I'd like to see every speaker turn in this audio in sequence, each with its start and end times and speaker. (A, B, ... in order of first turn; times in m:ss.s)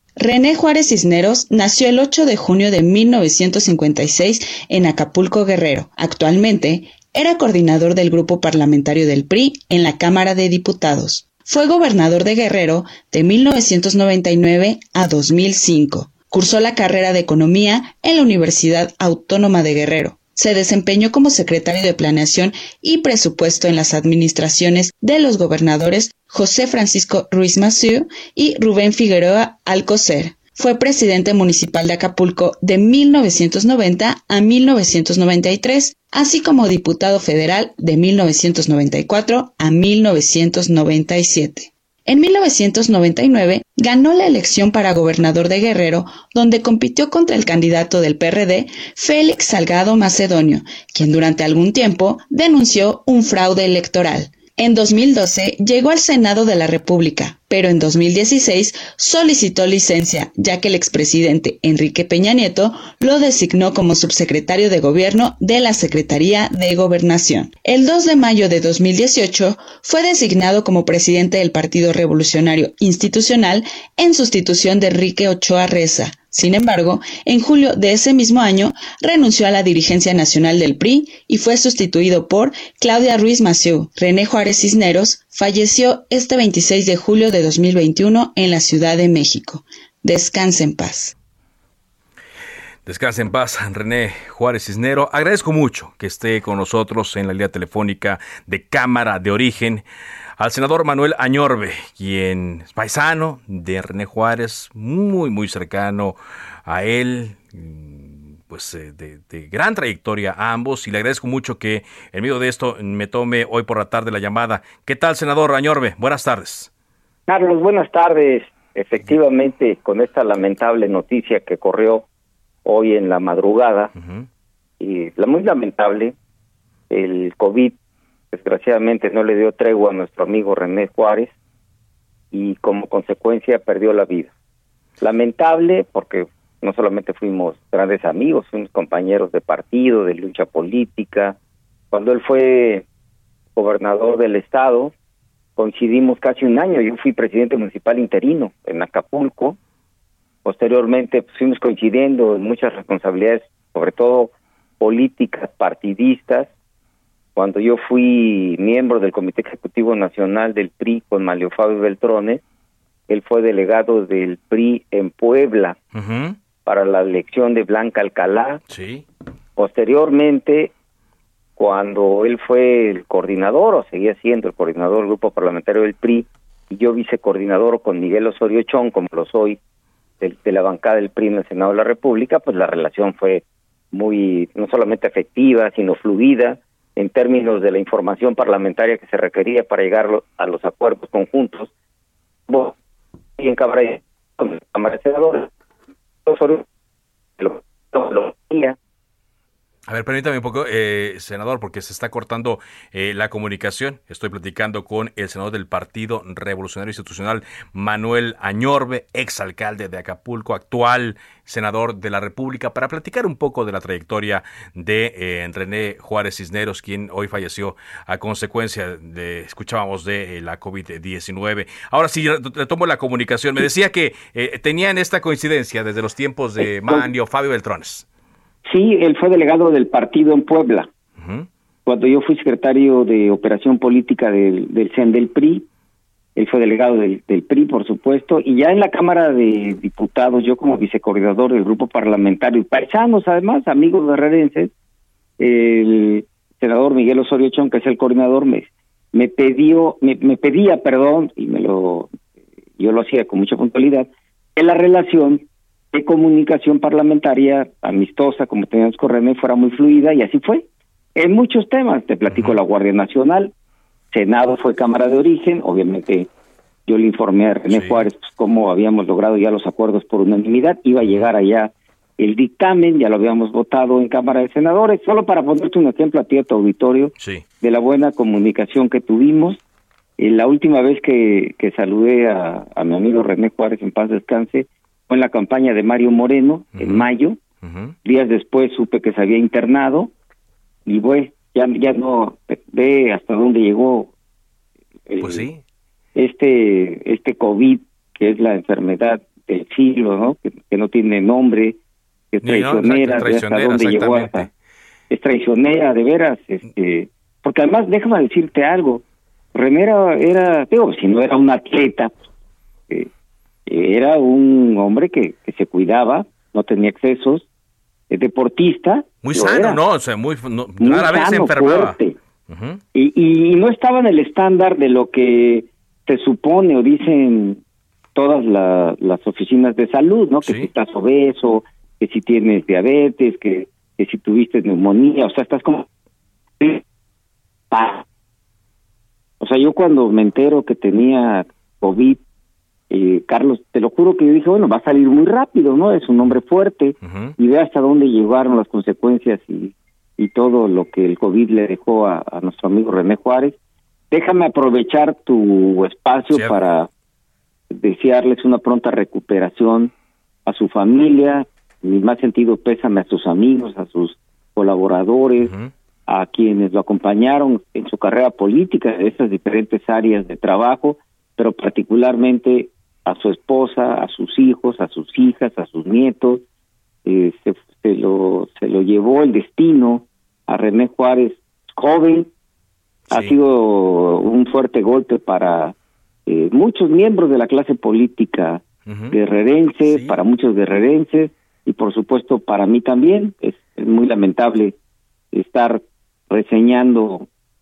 0:00.2-1:31.1 A
1:32.8-1:39.8 B
1:40.4-1:56.7 B
1:57.3-2:02.0 C
2:02.6-2:03.9 C
2:04.0-2:04.3 B
2:04.8-2:06.1 C
2:06.9-2:07.8 C
2:08.3-2:11.3 C
2:12.3-2:14.3 C
2:15.0-2:21.4 C
2:21.9-2:22.8 C
2:23.6-2:24.9 C
2:25.6-2:29.6 C
2:30.4-2:36.5 C
2:37.4-2:42.4 C
2:43.1-2:45.8 C
2:45.9-2:46.4 B
2:46.6-2:48.6 C
2:48.7-2:49.0 B
2:49.6-2:50.7 C
2:51.6-2:59.6 C
3:00.2-3:11.7 C
3:12.5-3:12.7 C
3:13.4-3:15.5 C
3:16.2-3:16.6 C
3:17.4-3:18.8 C
3:19.9-3:48.0 B
3:46.6-3:47.0 C
3:48.6-3:50.9 C
3:51.2-3:51.5 B
3:51.8-3:55.6 C
3:56.4-4:04.7 C
4:05.4-4:12.1 C
4:12.8-4:23.5 C
4:22.3-4:22.6 B
4:24.1-4:26.3 C
4:26.9-4:39.6 C
4:27.7-4:28.0 B
4:31.0-4:31.3 B
4:37.2-4:37.4 B
4:40.2-4:47.4 C
4:46.8-4:47.1 B
4:47.6-4:48.0 B
4:48.0-4:50.1 C
4:50.8-4:54.1 C
4:55.1-4:55.5 C
4:55.2-4:55.6 B
4:56.2-5:01.8 C
5:02.3-5:04.5 C
5:02.4-5:04.5 B
5:05.1-5:09.0 C
5:09.5-5:12.1 C
5:13.7-5:17.4 C
5:18.1-5:19.8 C
5:19.2-5:22.0 B
5:20.8-5:22.2 C
5:22.5-5:22.8 B
5:22.9-5:27.6 C
5:28.1-5:35.9 C
5:30.4-5:30.7 B
5:37.7-5:38.0 C
5:39.4-5:42.2 C
5:42.9-5:53.5 C
5:47.0-5:47.4 B
5:54.1-5:56.9 C
5:56.3-5:56.6 B
5:57.7-5:59.9 C
6:00.4-6:05.5 C
6:05.4-6:05.7 B
6:06.1-6:16.4 C
6:17.0-6:22.3 C
6:23.1-6:25.7 C
6:26.3-6:34.7 C
6:28.9-6:29.1 B
6:29.8-6:30.2 B
6:35.3-6:37.3 C